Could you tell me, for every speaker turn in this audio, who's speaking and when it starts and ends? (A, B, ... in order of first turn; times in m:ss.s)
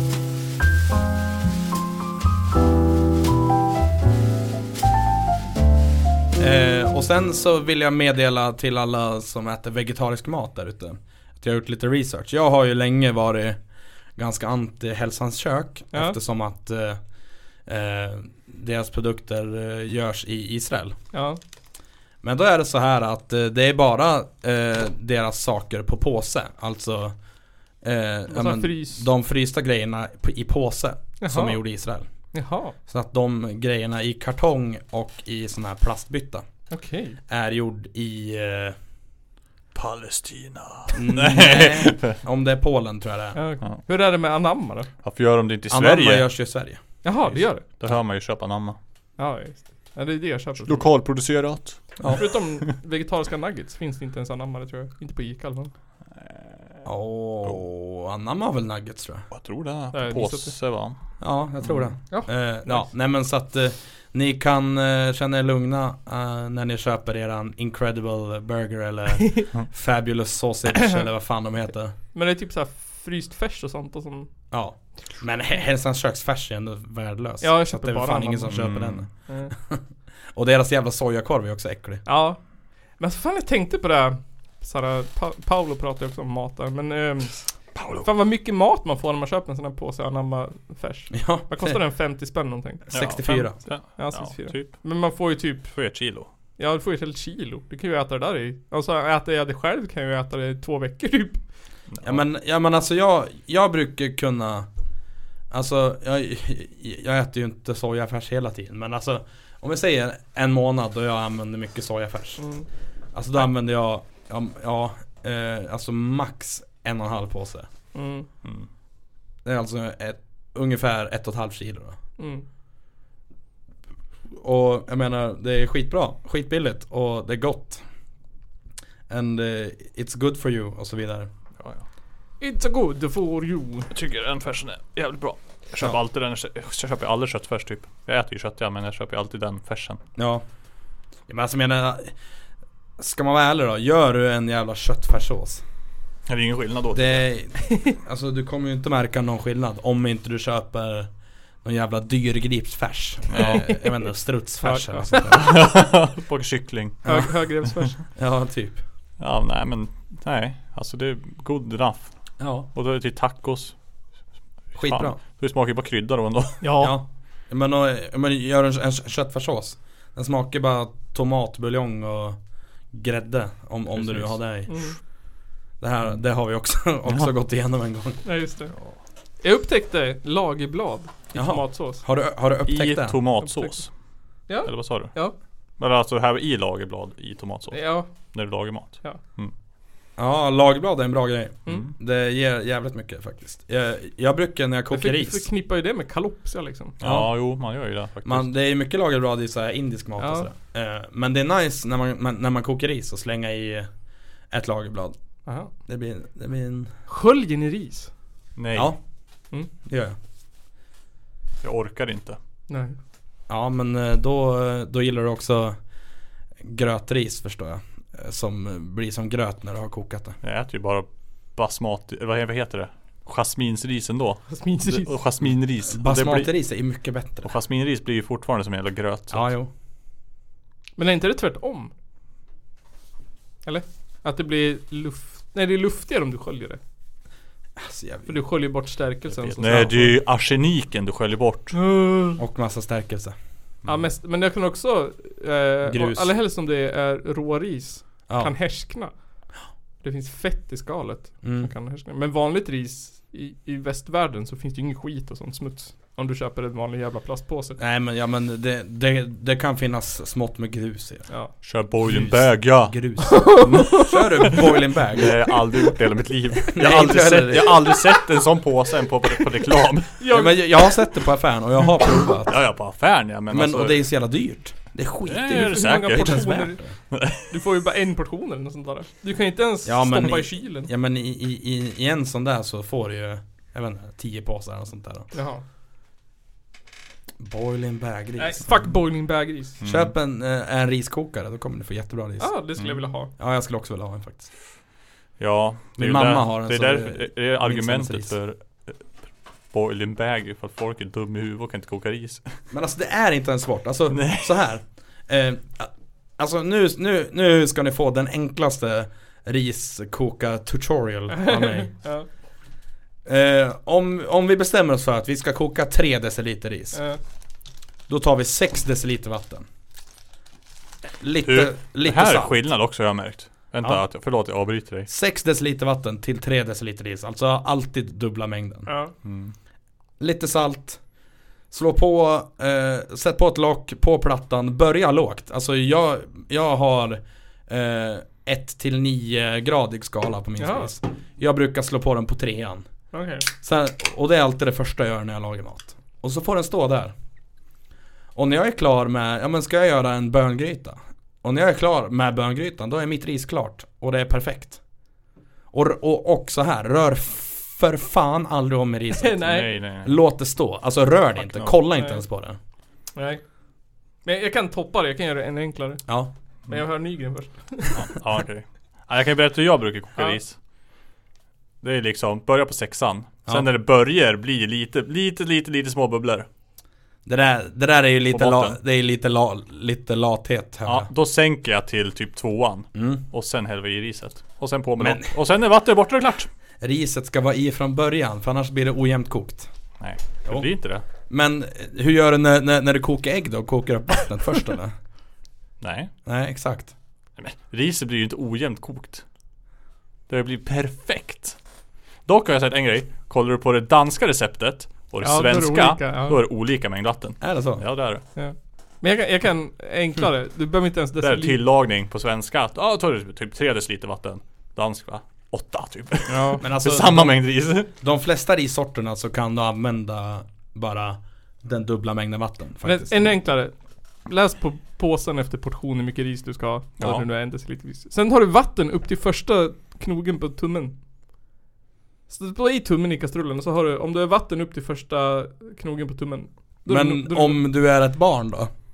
0:06.4-0:13.6 A
0:14.2-0:17.0 A
0:15.9-0:16.2 B
0:17.7-0:21.0 A
0:21.1-0:21.4 B
0:22.2-0:27.2 A
0:27.8-0:32.1 A
0:28.3-0:29.1 B
0:31.2-0:31.6 B
0:32.3-0:32.8 B
0:32.9-0:36.4 A
0:36.7-0:37.2 B
0:37.3-0:38.8 A
0:39.8-0:42.2 C
0:40.9-0:43.4 A
0:43.4-0:44.9 B
0:45.0-0:46.3 C
0:45.7-0:46.8 A
0:47.0-0:47.6 B
0:47.6-0:48.8 C
0:49.2-0:50.9 B
0:50.6-0:52.7 C
0:52.0-0:52.3 A
0:52.2-0:55.7 B
0:56.3-0:56.8 C
0:56.8-0:59.3 A
0:59.3-1:01.0 C
0:59.9-1:00.6 B
1:01.2-1:12.0 A
1:01.6-1:01.9 C
1:02.1-1:02.9 B
1:12.1-1:14.3 B
1:14.5-1:19.8 A
1:17.4-1:18.6 B
1:18.5-1:19.1 C
1:19.3-1:19.5 B
1:20.4-1:22.0 A
1:22.0-1:22.4 B
1:23.0-1:27.4 B
1:27.8-1:28.1 C
1:28.0-1:32.9 B
1:31.1-1:31.8 A
1:32.9-1:33.6 A
1:32.9-1:34.8 C
1:34.0-1:35.8 B
1:35.7-1:36.3 C
1:36.6-1:41.4 B
1:41.9-1:42.2 C
1:42.0-1:44.7 A
1:45.5-1:52.4 A
1:52.4-1:52.7 B
1:53.1-1:57.7 A
1:57.9-1:58.3 B
1:59.4-2:02.0 A
2:02.2-2:02.4 B
2:04.4-2:07.8 A
2:09.1-2:11.3 A
2:11.6-2:11.8 C
2:12.4-2:13.9 B
2:13.9-2:20.0 C
2:20.2-2:20.4 A
2:21.3-2:22.2 A
2:23.0-2:25.6 A
2:26.3-2:27.3 C
2:26.9-2:31.1 A
2:31.6-2:35.6 A
2:33.3-2:33.6 C
2:33.4-2:33.8 B
2:34.6-2:35.2 B
2:35.3-2:37.1 C
2:37.0-2:38.0 B
2:37.0-2:37.3 A
2:38.1-2:38.8 A
2:39.2-2:43.8 C
2:42.4-2:42.7 A
2:44.7-2:46.7 C
2:44.8-2:45.2 A
2:46.6-2:47.0 B
2:46.8-2:52.4 A
2:52.9-2:54.8 A
2:53.9-2:54.4 C
2:54.7-2:55.0 B
2:55.8-2:58.2 A
2:58.2-2:58.7 B
2:59.4-3:02.0 B
3:01.3-3:03.2 A
3:02.7-3:03.9 C
3:03.4-3:03.9 B
3:04.5-3:05.4 B
3:04.6-3:05.1 C
3:05.8-3:09.5 C
3:07.7-3:08.1 B
3:10.2-3:15.5 A
3:11.7-3:11.9 C
3:14.9-3:17.0 B
3:17.0-3:18.5 C
3:17.0-3:17.6 A
3:18.2-3:23.9 A
3:20.2-3:20.5 B
3:24.5-3:25.2 A
3:25.5-3:25.7 B
3:25.8-3:26.9 A
3:27.1-3:28.1 B
3:28.6-3:28.9 C
3:28.7-3:29.0 A
3:29.9-3:30.2 A
3:31.6-3:32.4 C
3:32.7-3:33.0 B
3:33.5-3:35.8 A
3:36.6-3:40.4 A
3:40.4-3:46.5 C
3:44.5-3:45.2 B
3:45.9-3:47.5 A
3:47.4-3:49.5 C
3:49.3-3:49.7 A
3:51.0-3:51.9 B
3:53.6-3:56.8 B
3:57.8-3:58.4 A
3:58.3-4:00.1 B
3:59.5-4:01.8 C
3:59.6-3:59.9 A
4:01.7-4:02.4 B
4:02.4-4:03.4 A
4:03.9-4:09.1 B
4:05.8-4:06.3 A
4:10.0-4:17.8 B
4:11.4-4:11.7 A
4:17.8-4:21.3 A
4:21.3-4:21.6 B
4:21.6-4:23.0 C
4:22.0-4:25.4 A
4:23.3-4:24.1 B
4:23.6-4:30.2 C
4:26.7-4:28.0 A
4:30.2-4:30.8 B
4:30.3-4:32.6 A
4:32.5-4:34.0 C
4:33.5-4:36.9 A
4:35.2-4:36.4 C
4:35.5-4:36.8 B
4:37.1-4:37.5 C
4:37.5-4:40.9 B
4:39.8-4:45.3 A
4:45.3-4:45.6 B
4:47.4-4:48.8 A
4:48.4-4:49.8 B
4:49.8-4:50.1 C
4:49.8-4:52.5 A
4:52.4-4:53.3 B
4:53.4-4:54.5 A
4:55.4-4:59.1 C
4:56.0-4:58.4 A
4:59.7-5:02.5 C
5:02.7-5:12.0 A
5:04.1-5:04.6 C
5:11.3-5:12.3 B
5:13.2-5:17.0 A
5:16.9-5:17.2 B
5:18.1-5:19.6 A
5:21.2-5:22.6 A
5:21.4-5:25.1 C
5:25.1-5:28.9 A
5:28.9-5:29.1 B
5:29.2-5:29.5 C
5:30.2-5:31.0 A
5:31.7-5:42.8 A
5:40.6-5:40.9 B
5:43.1-5:43.5 B
5:43.6-5:47.1 A
5:48.4-5:54.8 A
5:55.7-6:02.6 A
5:59.2-5:59.7 B
5:59.4-6:00.2 C
6:01.9-6:02.2 B
6:03.2-6:03.4 B
6:04.2-6:06.1 B
6:06.7-6:08.0 B
6:07.9-6:10.6 C
6:11.8-6:16.5 C
6:17.3-6:21.1 A
6:18.3-6:18.8 C
6:20.8-6:26.5 C
6:23.0-6:23.2 A
6:25.0-6:25.3 A
6:26.8-6:29.7 A
6:30.0-6:31.0 C
6:31.3-6:34.9 A
6:35.8-6:36.1 C
6:36.2-6:36.9 A
6:37.4-6:39.2 C
6:40.3-6:41.6 C
6:42.3-6:48.2 C
6:45.2-6:46.4 B
6:47.4-6:47.8 A
6:48.4-6:51.6 B
6:51.2-6:57.9 C
6:56.3-6:56.6 B
6:56.6-7:03.3 A
7:02.8-7:11.0 B
7:07.0-7:07.2 C
7:12.3-7:17.6 B
7:16.9-7:18.7 A